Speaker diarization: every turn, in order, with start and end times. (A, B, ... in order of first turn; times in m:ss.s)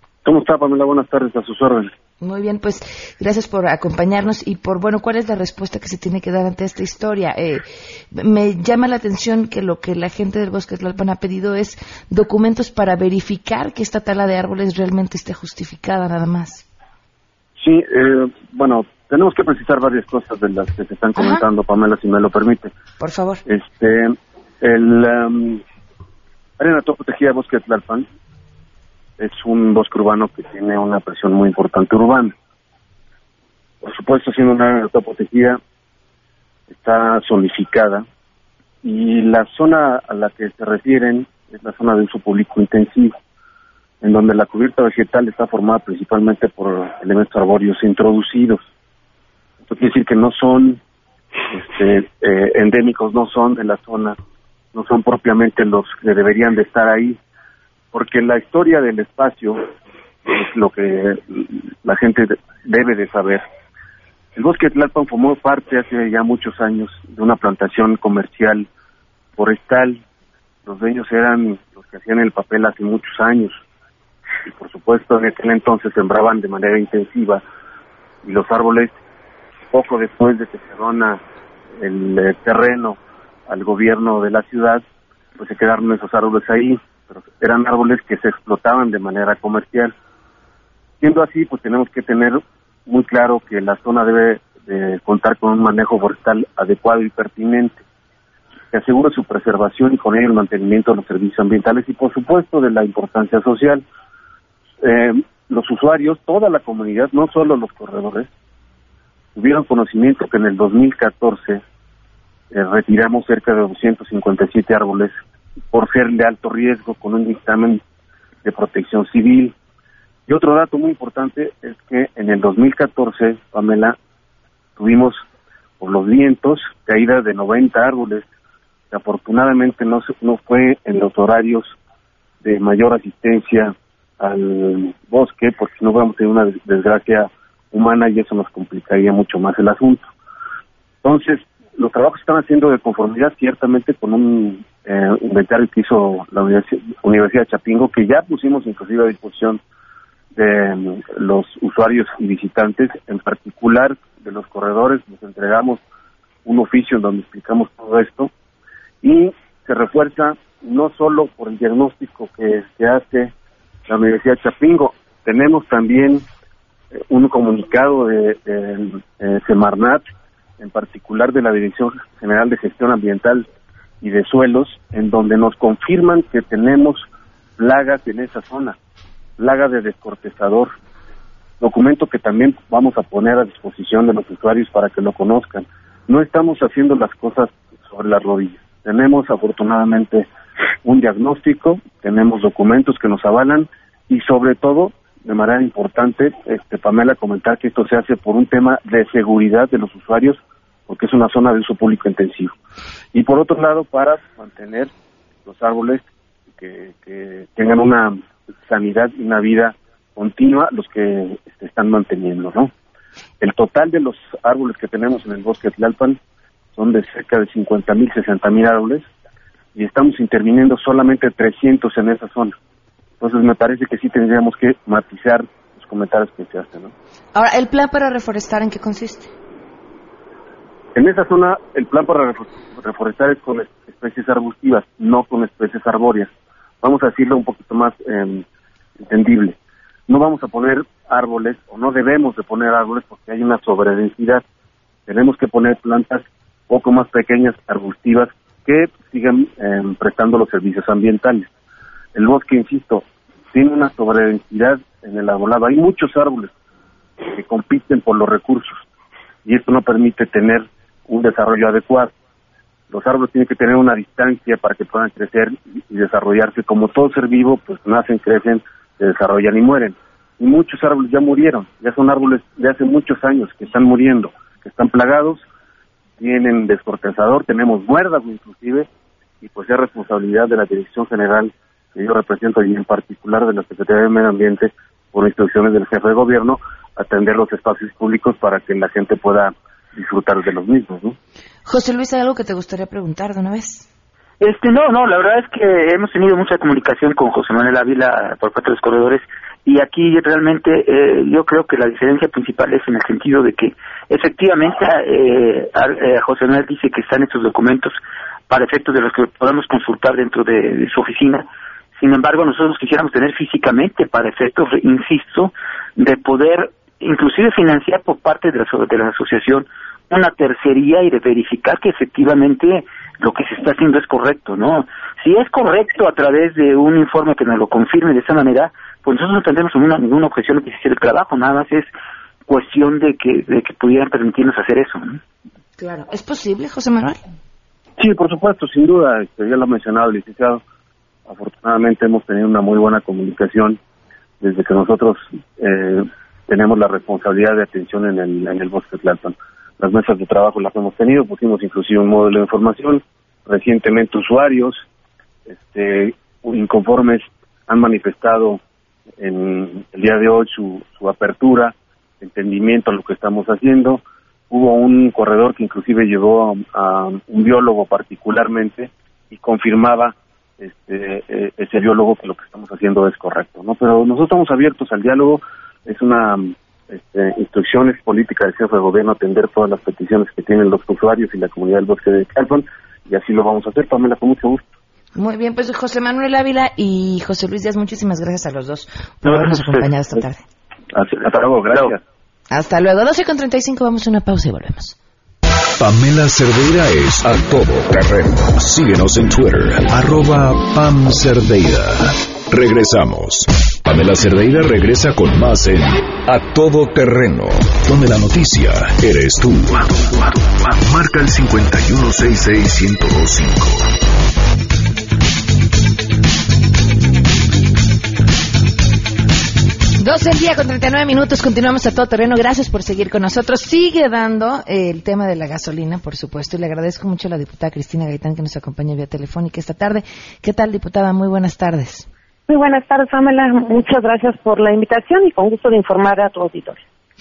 0:00.2-0:01.9 A
0:02.2-0:16.6 B
0:17.6-0:22.7 A
0:21.2-0:21.4 B
0:23.0-0:23.4 B
0:23.5-0:25.6 A
0:26.6-0:28.0 A
0:29.2-0:32.3 A
0:33.8-0:35.6 A
0:36.7-0:38.0 A
0:38.8-0:43.1 A
0:44.0-0:48.7 A
0:49.6-0:50.8 A
0:51.5-0:54.2 A
0:54.7-0:57.2 A
0:57.9-0:59.6 A
1:00.3-1:03.4 A
1:04.4-1:08.7 A
1:09.4-1:10.0 A
1:10.6-1:13.6 A
1:14.4-1:17.4 A
1:18.2-1:19.0 A
1:19.7-1:21.2 A
1:21.8-1:24.8 A
1:25.4-1:29.9 A
1:31.0-1:37.8 A
1:38.7-1:43.8 A
1:44.8-1:48.3 A
1:49.3-1:51.6 A
1:52.5-1:55.1 A
1:55.7-1:57.8 A
1:58.4-1:59.5 A
2:00.3-2:04.0 A
2:04.8-2:05.2 A
2:05.8-2:08.2 A
2:08.9-2:11.7 A
2:12.4-2:20.0 A
2:21.0-2:29.6 A
2:30.3-2:35.8 A
2:36.4-2:38.3 A
2:39.0-2:43.3 A
2:43.9-2:46.2 A
2:47.0-2:50.0 A
2:50.6-2:53.5 A
2:54.0-2:57.0 A
2:57.6-2:58.8 A
2:59.4-3:00.7 A
3:01.6-3:10.3 A
3:10.8-3:22.5 A
3:23.1-3:24.9 A
3:25.4-3:26.0 A
3:26.6-3:32.7 A
3:33.4-3:36.2 A
3:36.7-3:39.1 A
3:39.7-3:42.5 A
3:43.2-3:46.9 A
3:47.3-3:49.3 B
3:50.9-3:56.3 A
3:56.8-3:58.4 A
3:59.0-3:59.6 A
4:00.1-4:04.4 A
4:05.1-4:11.5 A
4:12.1-4:16.5 A
4:17.3-4:18.8 A
4:19.4-4:22.1 A
4:22.9-4:35.4 A
4:36.2-4:38.9 A
4:39.4-4:51.2 A
4:51.6-4:53.8 B
4:54.4-5:08.0 C
5:08.5-5:11.4 C
5:12.0-5:31.9 C
5:32.5-5:35.2 C
5:35.8-5:37.2 B
5:38.0-5:40.6 A
5:41.3-5:43.8 A
5:44.4-5:54.8 A
5:55.5-5:58.6 A
5:59.2-6:24.6 A
6:25.2-6:30.4 B
6:30.9-6:32.0 A
6:32.5-6:35.0 B
6:35.8-6:53.9 D
7:00.0-7:12.1 B
7:12.5-7:16.8 E